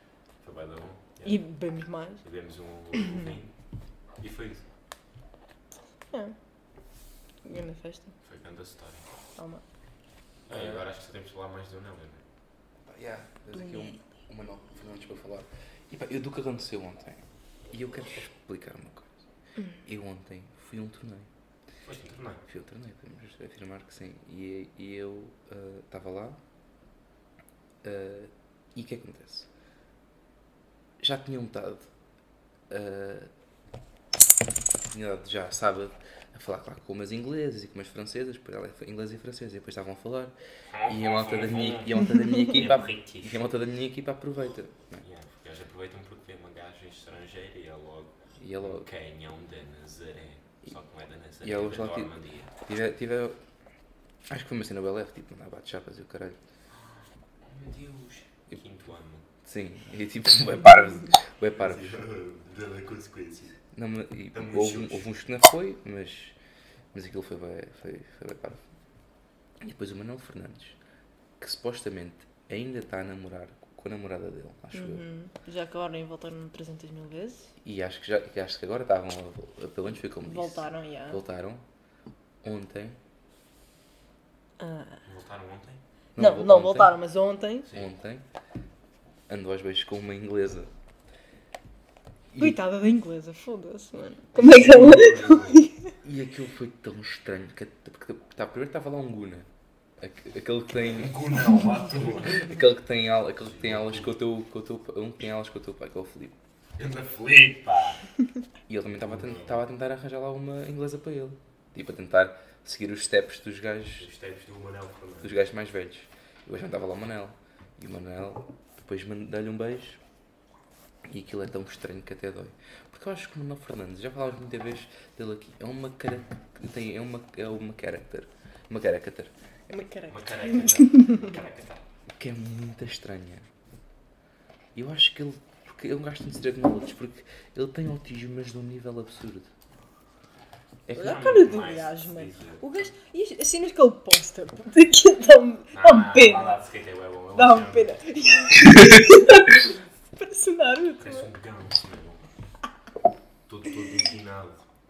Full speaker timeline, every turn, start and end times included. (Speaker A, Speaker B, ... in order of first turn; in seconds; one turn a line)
Speaker A: 0.4-1.4
Speaker B: 1.2-2.2
Speaker A: 2.2-3.5
Speaker A: 4.2-4.6
Speaker B: 7.5-8.1
Speaker A: 8.2-9.1
Speaker B: 9.4-9.6
Speaker C: 10.5-10.8
Speaker A: 10.5-12.2
Speaker C: 12.9-19.1
Speaker B: 13.5-14.0
Speaker C: 19.9-21.3
Speaker A: 21.9-22.4
Speaker C: 22.5-26.4
Speaker C: 27.8-29.5
Speaker C: 31.0-31.9
Speaker C: 32.7-33.3
Speaker C: 34.9-40.3
Speaker A: 40.7-43.5
Speaker C: 40.9-45.0
Speaker A: 45.0-52.5
Speaker C: 48.4-48.9
Speaker C: 51.4-52.1
Speaker C: 52.7-53.4
Speaker C: 54.3-56.4
Speaker A: 56.7-59.2
Speaker C: 59.4-62.0
Speaker A: 61.6-63.6
Speaker C: 63.7-66.4
Speaker A: 64.3-65.1
Speaker C: 66.9-68.6
Speaker C: 69.6-70.8
Speaker C: 71.4-75.0
Speaker B: 74.7-77.5
Speaker C: 77.6-81.6
Speaker B: 80.2-81.2
Speaker C: 82.4-83.0
Speaker B: 84.6-85.0
Speaker A: 85.0-85.8
Speaker C: 86.2-87.0
Speaker B: 86.2-87.7
Speaker C: 87.7-88.2
Speaker C: 89.3-90.7
Speaker C: 92.3-92.6
Speaker B: 92.4-95.7
Speaker A: 94.3-95.6
Speaker C: 96.0-99.5
Speaker C: 100.0-101.3
Speaker A: 100.9-102.5
Speaker C: 102.0-106.4
Speaker A: 103.4-104.1
Speaker A: 106.8-108.0
Speaker C: 108.7-114.1
Speaker A: 109.0-109.6
Speaker A: 114.0-115.3
Speaker C: 115.2-120.0
Speaker C: 121.1-129.3
Speaker B: 129.7-131.3
Speaker A: 130.1-131.9
Speaker C: 132.2-133.5
Speaker C: 134.8-139.5
Speaker C: 140.9-141.2
Speaker A: 140.9-142.8
Speaker B: 140.9-146.6
Speaker A: 145.7-148.6
Speaker B: 147.3-151.3
Speaker A: 151.0-152.2
Speaker A: 153.5-154.6